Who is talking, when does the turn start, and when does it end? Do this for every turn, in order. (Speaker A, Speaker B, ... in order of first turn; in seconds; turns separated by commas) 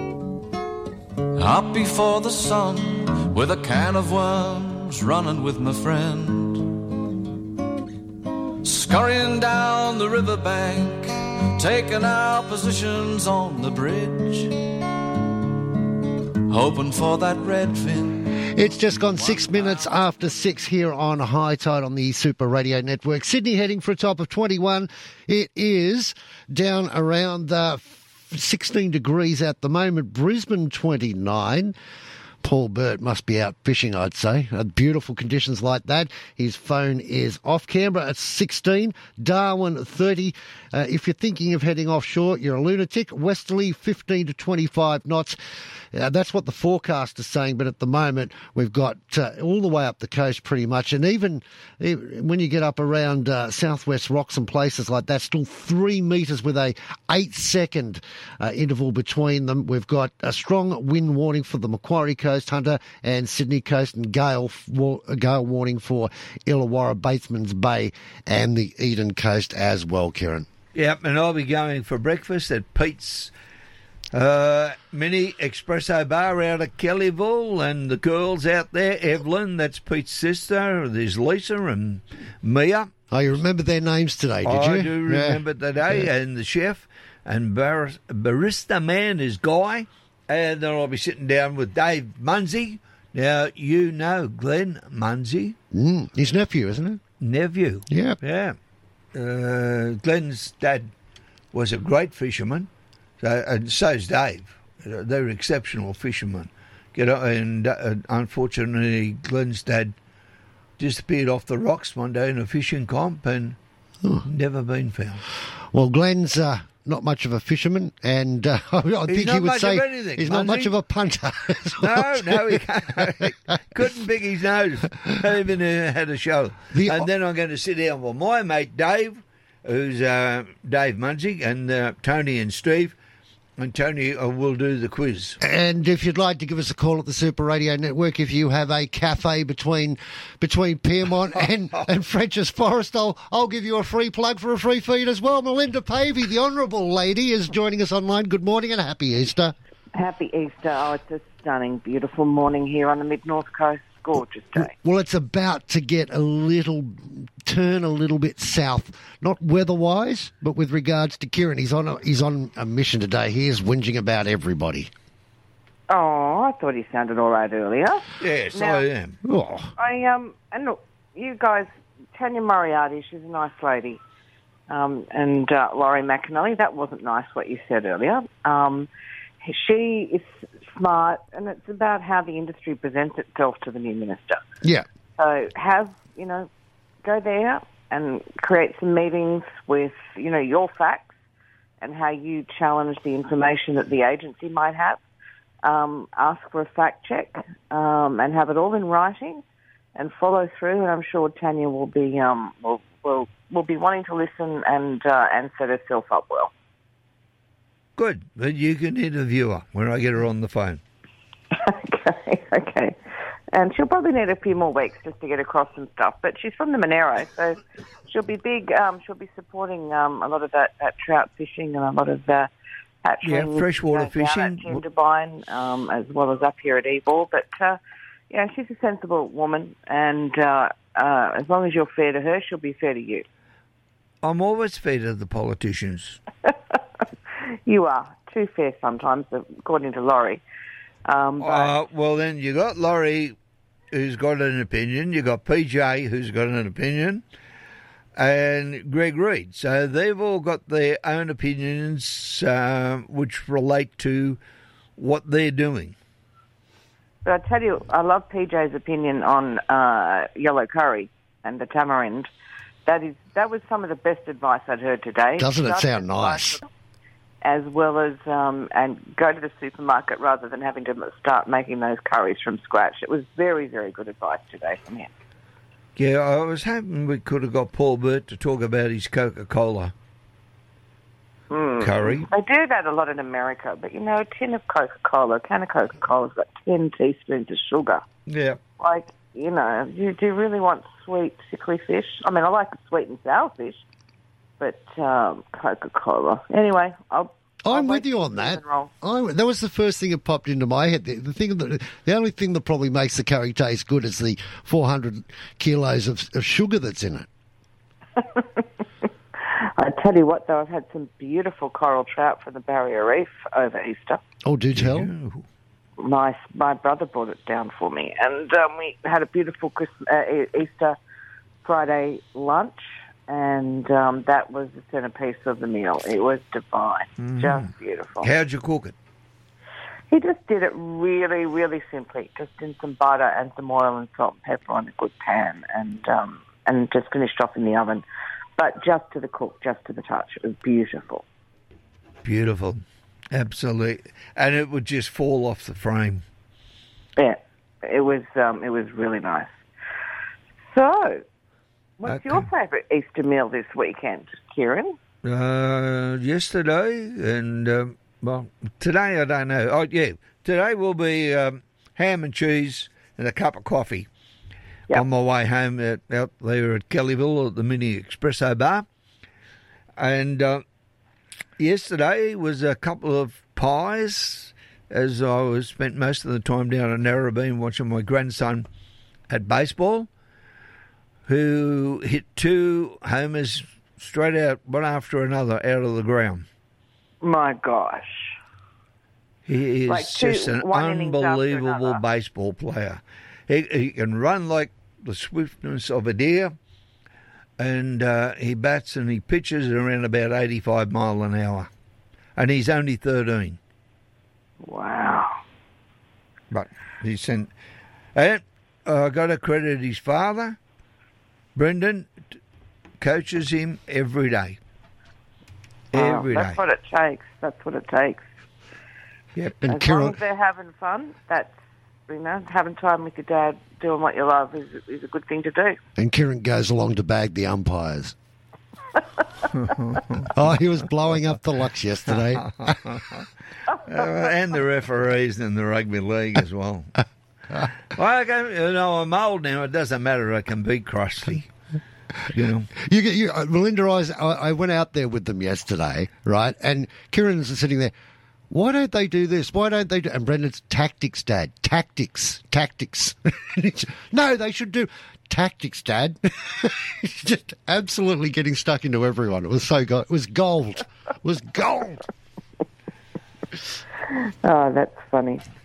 Speaker A: 1.4-6.8, Speaker A: 8.6-14.8, Speaker A: 16.5-18.3, Speaker B: 18.5-31.7, Speaker A: 19.1-20.0, Speaker B: 32.4-45.4, Speaker B: 45.9-70.5, Speaker C: 70.7-73.3, Speaker C: 74.1-82.9, Speaker B: 83.1-86.1, Speaker C: 84.4-95.6, Speaker B: 95.7-97.0, Speaker C: 97.2-98.6, Speaker B: 97.9-98.2, Speaker C: 99.1-100.9, Speaker C: 101.5-102.7, Speaker C: 103.2-109.9, Speaker C: 110.8-113.6, Speaker C: 114.2-115.2, Speaker B: 115.7-123.1, Speaker C: 119.1-120.7, Speaker C: 121.8-132.9, Speaker B: 126.7-127.1, Speaker C: 133.6-135.4, Speaker B: 135.4-149.5, Speaker C: 141.3-141.9, Speaker D: 149.9-154.7, Speaker B: 154.6-164.9, Speaker D: 165.9-168.8, Speaker C: 168.2-169.2, Speaker B: 169.2-169.7, Speaker D: 169.8-174.0, Speaker D: 174.7-178.9, Speaker D: 179.4-184.4, Speaker B: 184.6-184.9, Speaker D: 185.2-186.5, Speaker D: 187.0-191.1, Speaker D: 191.8-195.0, Speaker D: 195.6-199.4, Speaker D: 199.9-206.5, Speaker C: 208.0-210.8, Speaker D: 211.5-213.0, Speaker D: 213.5-217.6, Speaker D: 218.1-222.5, Speaker D: 223.0-227.8, Speaker C: 223.2-224.8, Speaker D: 228.3-233.2, Speaker C: 234.2-236.2, Speaker D: 237.7-240.4, Speaker D: 241.1-241.7, Speaker C: 241.4-243.4, Speaker C: 243.9-247.2, Speaker C: 248.2-254.4, Speaker C: 255.0-256.0, Speaker D: 257.2-262.3, Speaker D: 262.9-266.7, Speaker B: 265.4-266.6, Speaker D: 267.4-275.1, Speaker C: 276.0-279.9, Speaker D: 281.5-288.0, Speaker C: 281.8-282.3, Speaker C: 288.3-288.6, Speaker D: 288.8-293.8, Speaker D: 294.6-298.9, Speaker B: 297.6-307.3, Speaker D: 308.2-308.6, Speaker D: 309.4-314.2, Speaker B: 314.4-315.1, Speaker C: 314.8-315.4, Speaker D: 316.0-321.0, Speaker D: 321.6-328.3, Speaker C: 327.2-327.7, Speaker C: 328.2-328.9, Speaker D: 330.1-338.0, Speaker D: 338.6-341.2, Speaker C: 342.2-346.2, Speaker D: 347.2-349.6, Speaker D: 350.7-351.2, Speaker D: 352.0-355.0, Speaker C: 352.1-352.5, Speaker C: 355.2-364.1, Speaker C: 364.9-368.9, Speaker C: 370.0-370.6, Speaker C: 371.6-378.7, Speaker C: 379.3-380.1, Speaker C: 381.3-386.5, Speaker D: 387.2-388.4, Speaker C: 389.5-396.6, Speaker D: 389.9-392.0, Speaker C: 397.6-401.7, Speaker C: 402.4-403.6, Speaker D: 404.6-405.4, Speaker C: 406.5-407.5, Speaker C: 408.1-410.6, Speaker C: 411.6-412.3, Speaker C: 413.0-414.6, Speaker C: 415.9-416.6, Speaker D: 415.9-418.3, Speaker B: 419.6-420.2, Speaker D: 419.7-421.5, Speaker D: 422.1-425.8, Speaker B: 426.0-428.1, Speaker C: 429.5-430.6, Speaker B: 430.3-432.8, Speaker C: 432.1-433.2, Speaker C: 433.9-436.9, Speaker C: 437.9-441.5, Speaker C: 442.3-442.7, Speaker B: 442.8-447.9, Speaker B: 448.5-462.0, Speaker D: 464.1-465.4